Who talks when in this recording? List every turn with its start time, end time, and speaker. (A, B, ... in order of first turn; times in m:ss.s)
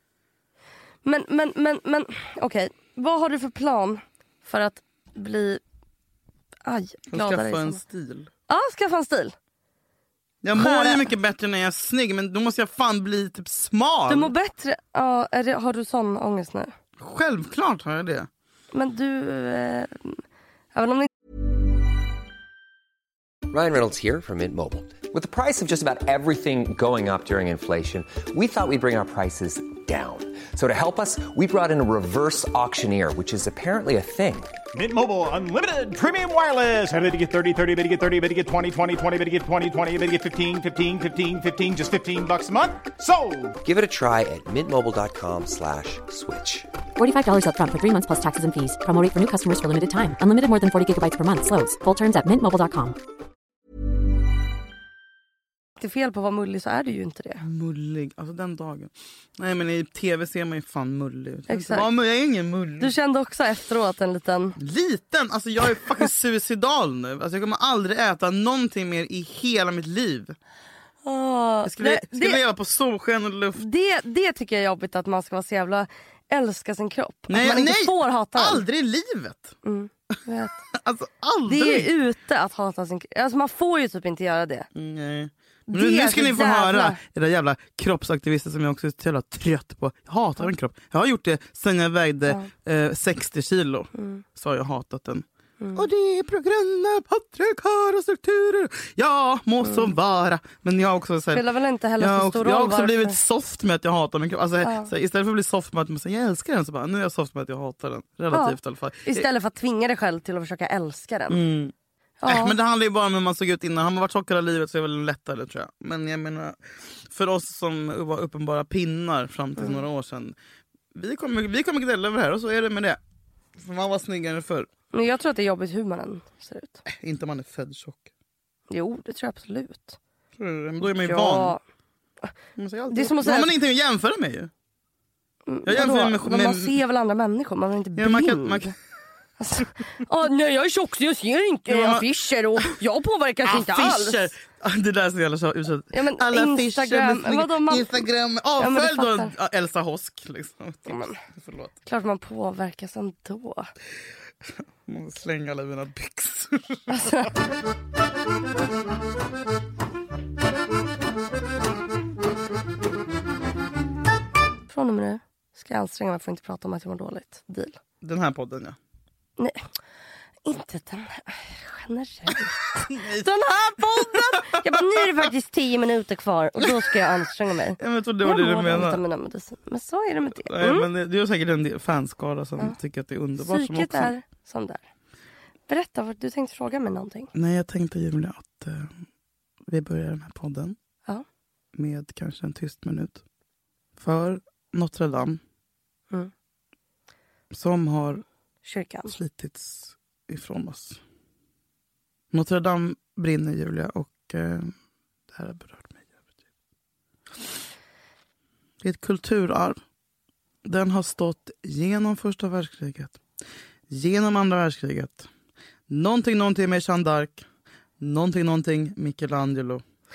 0:01.0-0:05.6 A
0:06.6-0:07.8 A
0:07.1-0:08.3 B
0:08.5-0:09.3 A
0:10.4-0:14.3 B
0:10.5-0:11.1 A
0:14.1-0:16.7 A
0:17.0-0:18.3 B
0:18.7-0:20.2 A
0:20.7-0:21.1 A
0:23.5-0:34.6 C
0:34.7-0:43.6 D
0:43.6-0:46.7 C
0:47.0-0:53.0 E
0:55.8-0:57.4 A
0:57.4-1:02.9 B
1:01.5-1:01.9 A
1:02.8-1:04.6 A
1:04.6-1:10.4 B
1:11.0-1:12.4 A
1:11.6-1:13.6 B
1:13.6-1:18.6 A
1:17.3-1:19.6 B
1:19.6-1:20.6 A
1:20.7-1:21.9 B
1:21.5-1:24.7 A
1:24.8-1:41.4 B
1:25.7-1:27.0 A
1:34.0-1:34.2 A
1:35.6-1:35.8 A
1:39.6-1:39.9 A
1:41.3-1:43.2 A
1:42.0-1:49.3 B
1:44.6-1:44.9 A
1:48.3-1:51.4 A
1:51.3-1:51.7 B
1:52.2-1:52.6 A
1:52.3-2:00.4 B
2:00.9-2:03.0 B
2:03.6-2:04.7 B
2:04.9-2:06.8 A
2:06.9-2:08.1 B
2:08.7-2:10.0 A
2:10.4-2:11.6 B
2:10.9-2:11.6 A
2:12.6-2:14.5 B
2:12.9-2:13.5 A
2:15.5-2:18.7 A
2:15.6-2:16.8 B
2:18.0-2:18.7 B
2:19.4-2:24.3 A
2:21.7-2:22.7 B
2:23.4-2:31.7 B
2:25.9-2:28.0 A
2:28.6-2:29.3 A
2:30.9-2:31.2 A
2:31.8-2:33.7 A
2:34.9-2:37.3 B
2:36.9-2:37.3 A
2:44.7-2:47.8 A
2:48.0-2:48.8 B
2:50.4-3:00.9 A
2:52.8-2:55.3 B
2:56.6-2:57.0 B
2:57.8-2:59.0 B
3:00.4-3:04.1 B
3:03.4-3:04.8 A
3:05.7-3:07.3 A
3:07.3-3:08.9 B
3:09.7-3:10.8 B
3:11.8-3:13.2 B
3:14.0-3:15.4 B
3:17.5-3:18.2 B
3:18.6-3:19.2 A
3:19.1-3:21.0 B
3:22.3-3:24.7 B
3:25.3-3:26.2 B
3:28.8-3:29.8 B
3:30.6-3:33.2 B
3:33.9-3:35.3 B
3:35.9-3:37.4 B
3:38.0-3:39.8 B